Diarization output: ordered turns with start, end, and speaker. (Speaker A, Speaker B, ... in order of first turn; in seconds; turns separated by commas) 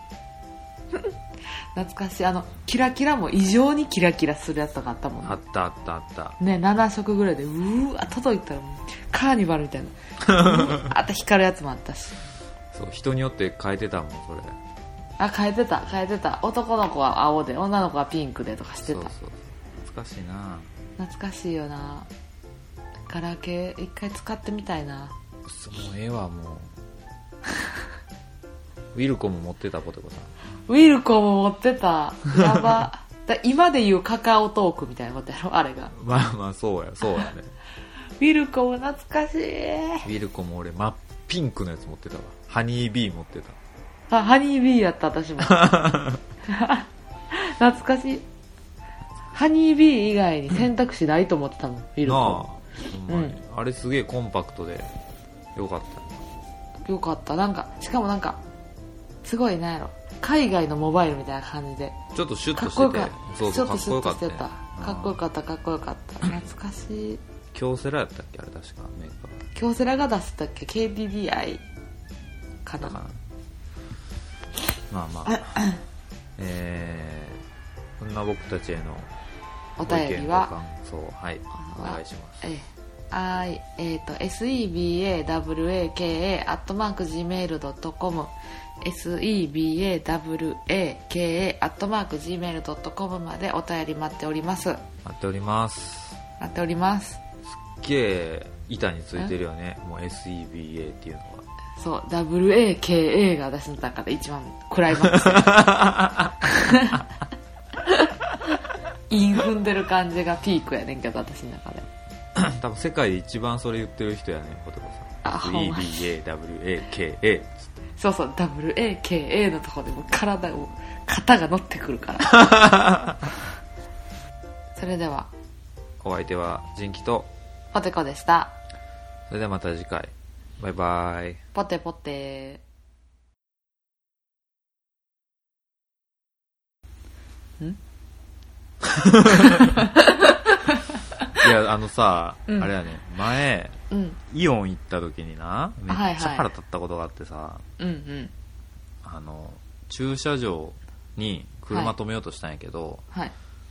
Speaker A: 1.7-5.4, Speaker B: 5.2-6.4, Speaker A: 6.4-12.2, Speaker B: 10.2-10.9, Speaker B: 12.7-14.6, Speaker A: 15.2-19.1, Speaker B: 18.8-20.7, Speaker A: 21.0-22.1, Speaker A: 23.1-25.1, Speaker B: 25.5-26.7, Speaker B: 28.9-30.3, Speaker A: 30.7-36.0, Speaker B: 32.3-32.9, Speaker B: 35.9-37.5, Speaker A: 38.2-40.1, Speaker B: 40.0-43.6, Speaker A: 44.1-45.8, Speaker B: 45.4-46.2, Speaker A: 46.5-48.3, Speaker A: 49.3-52.5, Speaker B: 52.0-54.9, Speaker A: 53.1-53.4, Speaker B: 55.6-56.2, Speaker A: 56.9-58.4, Speaker A: 59.2-62.0, Speaker B: 62.1-65.2, Speaker A: 62.5-67.2, Speaker B: 67.5-69.4, Speaker A: 69.5-71.6, Speaker A: 72.6-73.0, Speaker B: 72.8-73.2, Speaker B: 74.9-75.7, Speaker A: 75.3-75.8, Speaker B: 76.4-77.4, Speaker B: 78.0-79.1, Speaker A: 79.8-80.5, Speaker B: 79.8-82.5, Speaker A: 81.6-94.8, Speaker B: 95.0-96.2, Speaker A: 96.4-97.2, Speaker B: 97.5-101.5, Speaker A: 101.8-105.8, Speaker B: 105.0-106.4, Speaker A: 106.4-107.1, Speaker A: 107.8-108.1, Speaker A: 109.1-111.9, Speaker B: 112.4-117.7, Speaker A: 115.2-116.0, Speaker A: 118.0-122.7, Speaker B: 122.4-123.2, Speaker A: 124.8-125.3, Speaker B: 126.0-127.3, Speaker A: 127.7-128.6, Speaker B: 129.3-131.4, Speaker A: 131.5-132.6, Speaker B: 138.8-139.8, Speaker A: 139.4-141.0, Speaker B: 141.3-147.7, Speaker A: 143.9-144.2, Speaker A: 145.9-146.5, Speaker A: 147.8-148.3, Speaker B: 149.0-153.1